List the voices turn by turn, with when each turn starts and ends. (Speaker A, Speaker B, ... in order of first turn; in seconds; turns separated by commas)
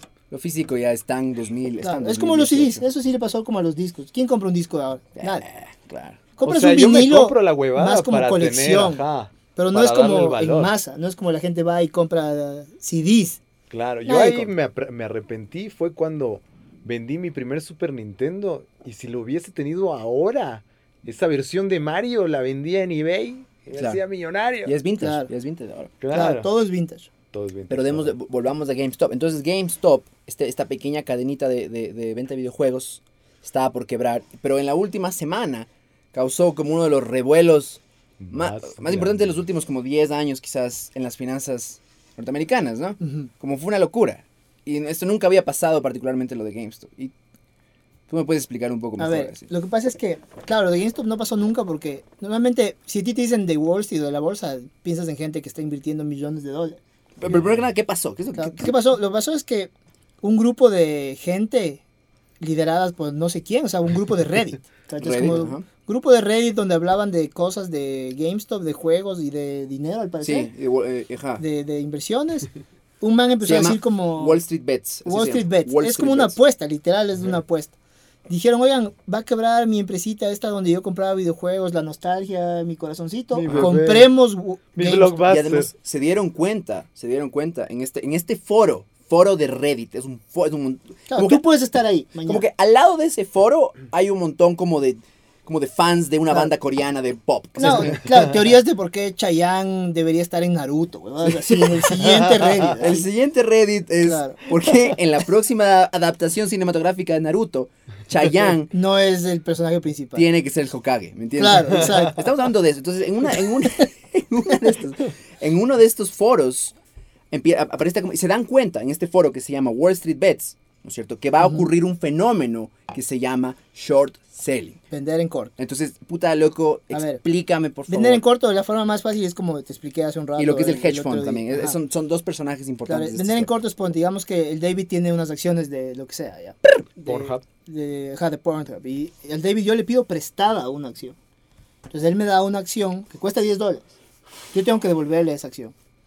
Speaker A: 0.3-2.9, Speaker B: 1.8-5.5, Speaker A: 5.2-6.2, Speaker B: 6.4-9.0, Speaker C: 6.4-10.7, Speaker B: 9.5-13.4, Speaker C: 13.7-24.7, Speaker B: 14.1-14.5, Speaker A: 23.7-24.0, Speaker A: 24.6-25.9, Speaker B: 25.0-25.3, Speaker C: 26.0-26.5, Speaker B: 26.1-27.1, Speaker C: 27.3-28.1, Speaker A: 27.7-47.1, Speaker C: 38.2-39.3, Speaker B: 43.0-43.3, Speaker A: 48.1-49.5, Speaker B: 49.0-56.8, Speaker A: 57.2-58.7, Speaker B: 58.4-59.7, Speaker B: 60.2-61.8, Speaker B: 62.4-70.5, Speaker A: 65.0-65.7, Speaker A: 70.2-71.4, Speaker B: 71.4-72.5, Speaker B: 73.0-74.4, Speaker A: 73.4-76.4, Speaker B: 75.0-77.7, Speaker B: 78.3-85.2, Speaker C: 83.3-84.1, Speaker C: 84.8-85.7, Speaker A: 85.2-91.4, Speaker B: 91.1-92.5, Speaker A: 92.2-98.0, Speaker B: 97.6-103.1, Speaker A: 101.4-101.8, Speaker C: 102.0-102.7, Speaker A: 102.8-108.7, Speaker B: 104.0-104.4, Speaker B: 108.7-110.3, Speaker A: 110.2-116.7, Speaker B: 111.4-112.2, Speaker A: 117.3-124.8, Speaker B: 121.4-121.7, Speaker B: 124.9-125.5, Speaker A: 125.6-128.2, Speaker B: 126.9-127.2, Speaker B: 127.9-131.8, Speaker A: 130.4-133.5, Speaker B: 132.9-141.2, Speaker C: 137.1-137.4, Speaker B: 141.9-143.9, Speaker B: 144.5-145.7